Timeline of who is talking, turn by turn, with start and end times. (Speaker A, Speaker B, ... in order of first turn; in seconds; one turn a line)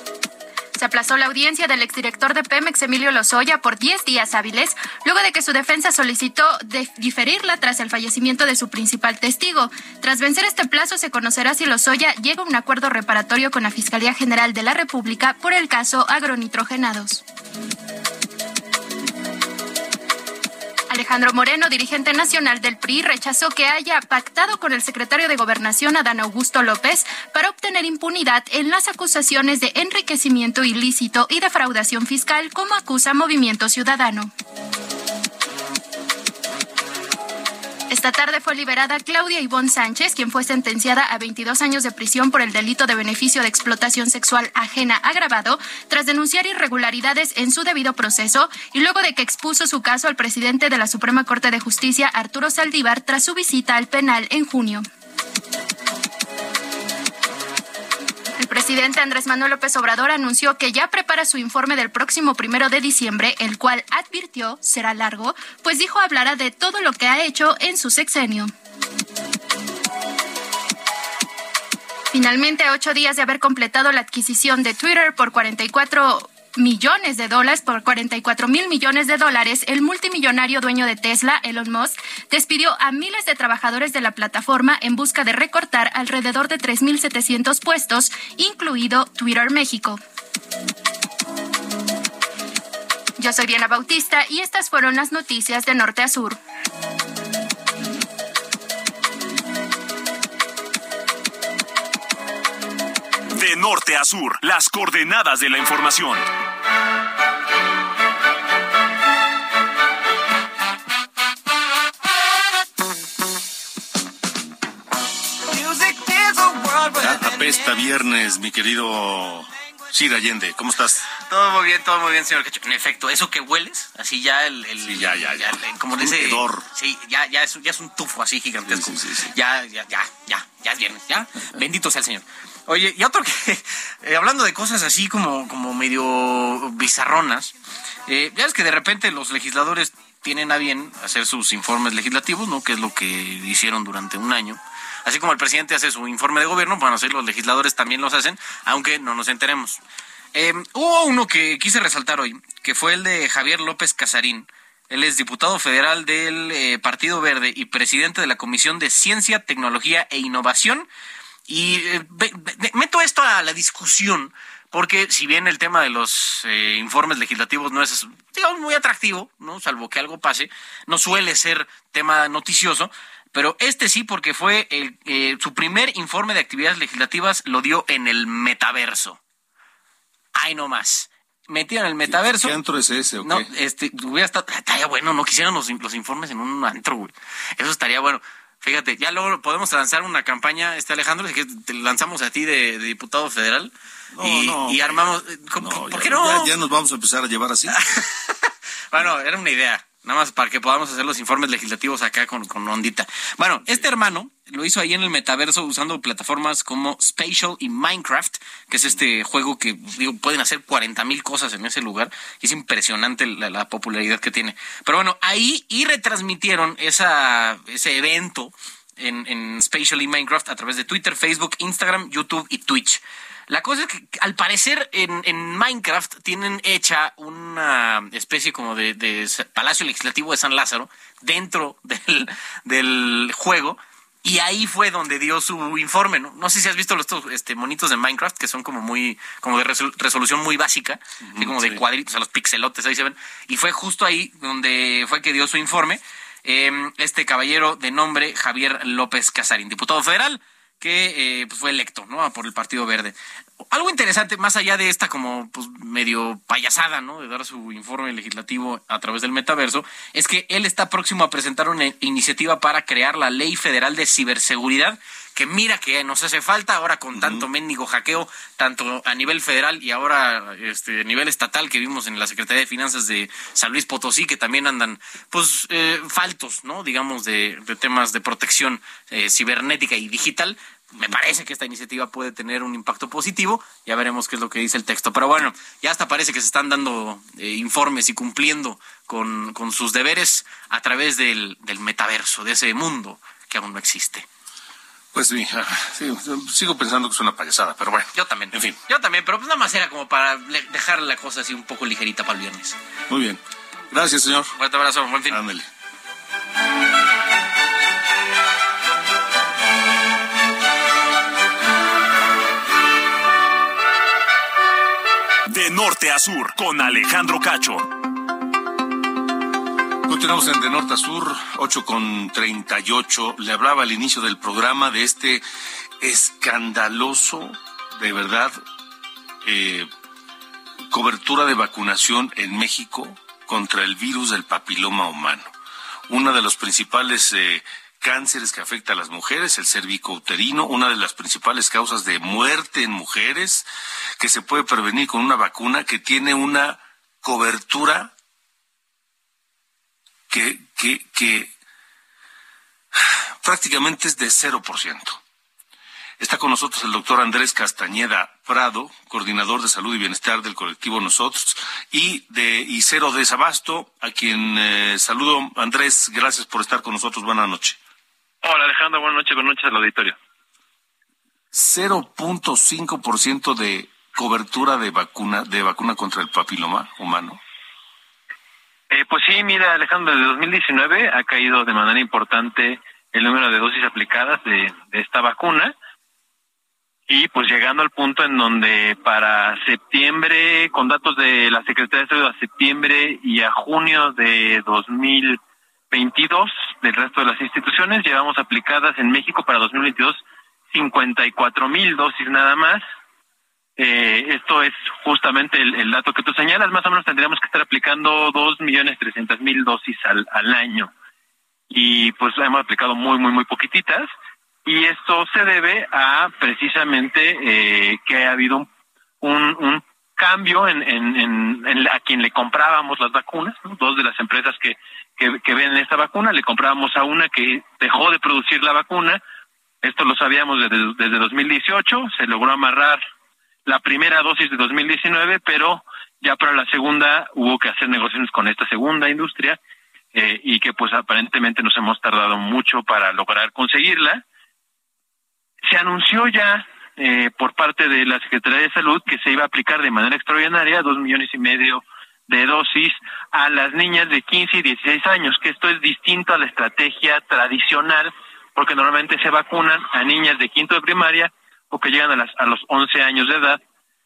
Speaker A: 0.7-17.2
Speaker A: 20.9-34.3
Speaker A: 37.9-54.9
Speaker A: 58.4-68.5
Speaker A: 72.1-90.0
Speaker A: 93.2-96.4
Speaker B: 103.3-106.2
Speaker C: 115.7-116.7
Speaker D: 117.0-121.1
Speaker C: 121.2-137.5
Speaker D: 124.8-126.7
Speaker D: 128.7-129.3
Speaker C: 138.1-149.8
Speaker C: 150.3-160.9
Speaker C: 161.5-179.2
Speaker C: 180.3-182.5
Speaker D: 182.0-183.5
Speaker C: 183.2-196.5
Speaker D: 194.1-197.8
Speaker C: 197.7-198.1
Speaker C: 198.9-253.1
Speaker D: 241.2-241.8
Speaker C: 253.7-294.2
Speaker D: 267.1-267.4
Speaker D: 295.1-298.8
Speaker C: 298.1-302.8
Speaker D: 303.1-304.5
Speaker C: 304.6-305.4
Speaker D: 305.3-305.7
Speaker B: 315.5-317.9
Speaker D: 320.0-325.4
Speaker D: 326.0-328.6
Speaker D: 329.4-329.9
Speaker D: 330.9-335.5
Speaker D: 336.1-343.6
Speaker D: 344.2-348.1
Speaker D: 350.3-351.5
Speaker D: 352.9-355.2
Speaker D: 356.2-367.8
Speaker E: 368.4-370.1
Speaker D: 371.5-377.4
Speaker E: 378.9-385.7
Speaker E: 387.1-395.4
Speaker E: 395.9-402.8
Speaker E: 403.8-410.9
Speaker E: 411.7-414.1
Speaker E: 414.6-418.7
Speaker E: 419.2-429.2
Speaker E: 429.8-433.0
Speaker E: 433.6-439.6
Speaker E: 440.1-444.2
Speaker E: 445.6-463.6